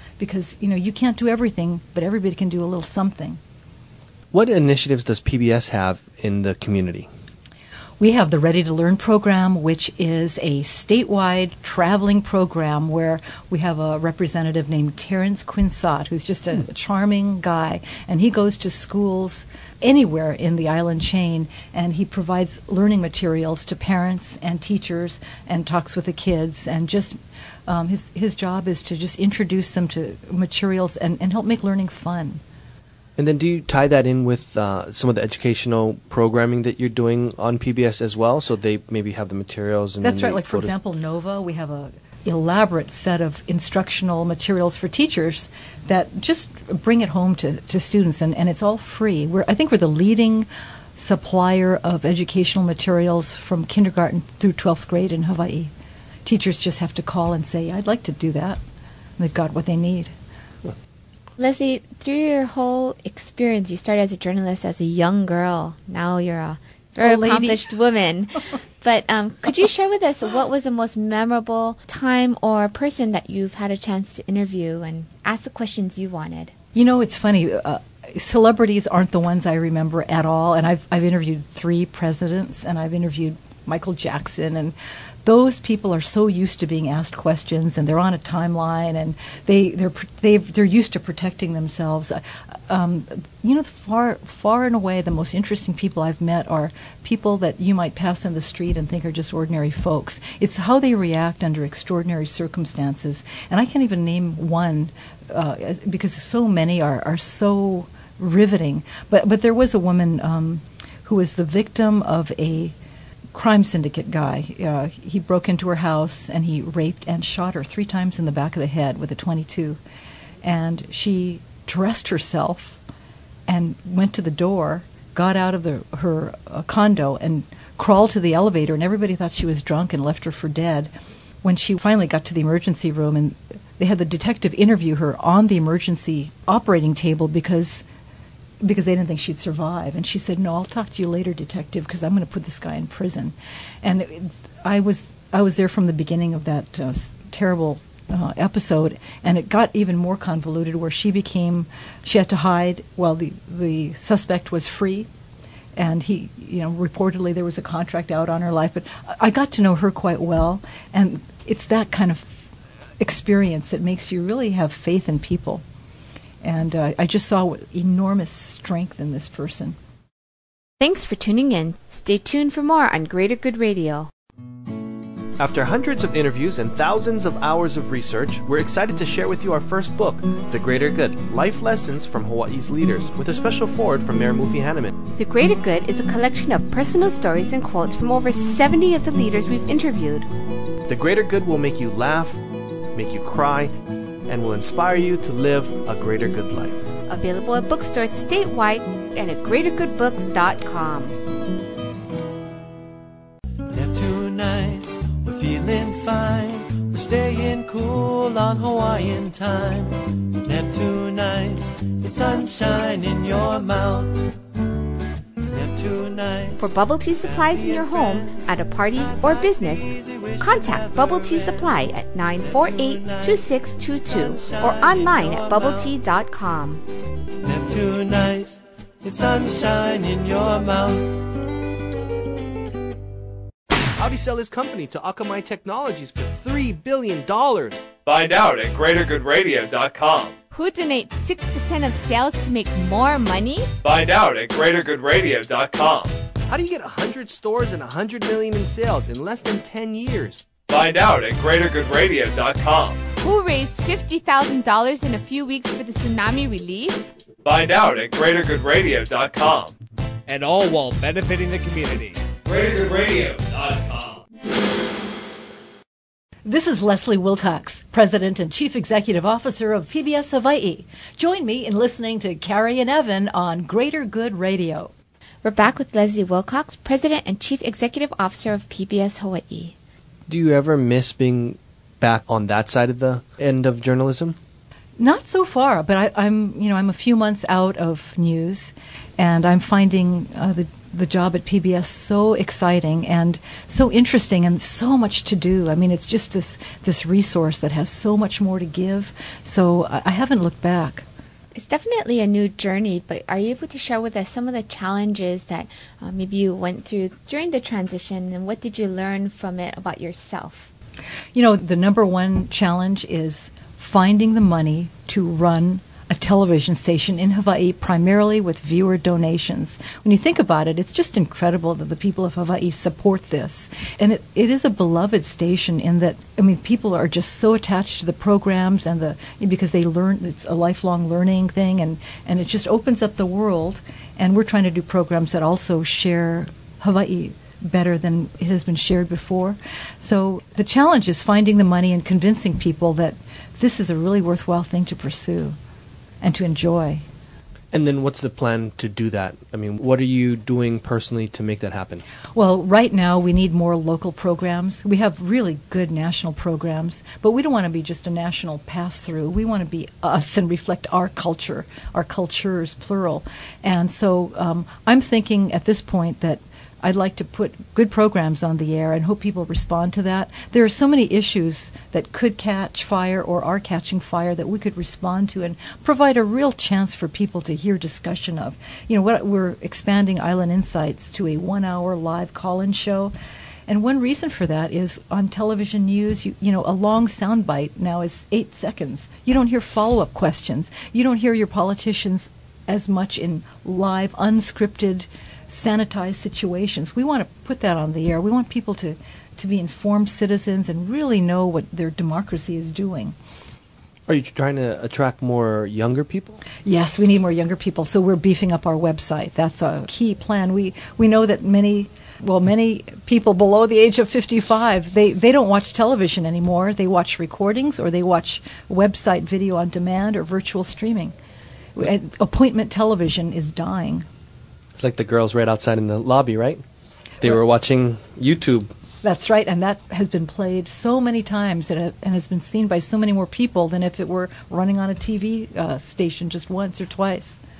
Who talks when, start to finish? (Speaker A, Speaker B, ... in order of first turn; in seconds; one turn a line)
Speaker A: 0.2-3.4
Speaker B: 4.3-7.1
Speaker A: 8.0-32.4
Speaker B: 33.2-40.7
Speaker A: 40.0-55.7
Speaker A: 56.2-58.6
Speaker A: 59.2-60.1
Speaker C: 61.4-76.5
Speaker A: 67.0-67.6
Speaker A: 76.7-112.7
Speaker A: 113.3-119.8
Speaker A: 120.4-122.8
Speaker A: 123.5-130.9
Speaker A: 131.4-137.8
Speaker A: 138.6-155.1
Speaker A: 155.8-162.3
Speaker A: 163.0-165.6
Speaker A: 166.4-169.8
Speaker C: 170.8-174.1
Speaker B: 175.4-184.9
Speaker C: 185.2-190.3
Speaker B: 190.9-192.4
Speaker B: 192.9-193.7
Speaker B: 194.3-196.8
Speaker C: 197.1-201.2
Speaker D: 203.7-214.3
Speaker D: 215.4-221.8
Speaker C: 216.6-226.8
Speaker D: 222.4-225.9
Speaker D: 227.4-231.3
Speaker B: 234.0-237.8
Speaker E: 238.1-240.3
Speaker C: 240.5-243.7
Speaker E: 243.8-246.1
Speaker B: 246.5-250.4
Speaker E: 250.7-253.0
Speaker C: 253.2-257.1
Speaker E: 257.4-259.7
Speaker F: 260.2-262.2
Speaker E: 262.4-264.2
Speaker A: 266.4-274.9
Speaker C: 275.4-279.7
Speaker B: 280.3-284.4
Speaker A: 285.0-301.1
Speaker C: 301.5-310.7
Speaker A: 311.3-345.6
Speaker A: 346.2-347.0
Speaker B: 347.7-352.0
Speaker A: 352.3-383.1
Speaker A: 383.7-403.1
Speaker B: 404.1-406.4
Speaker A: 406.6-421.1
Speaker A: 421.7-424.1
Speaker B: 424.8-426.6
Speaker B: 427.2-428.7
Speaker A: 429.0-437.4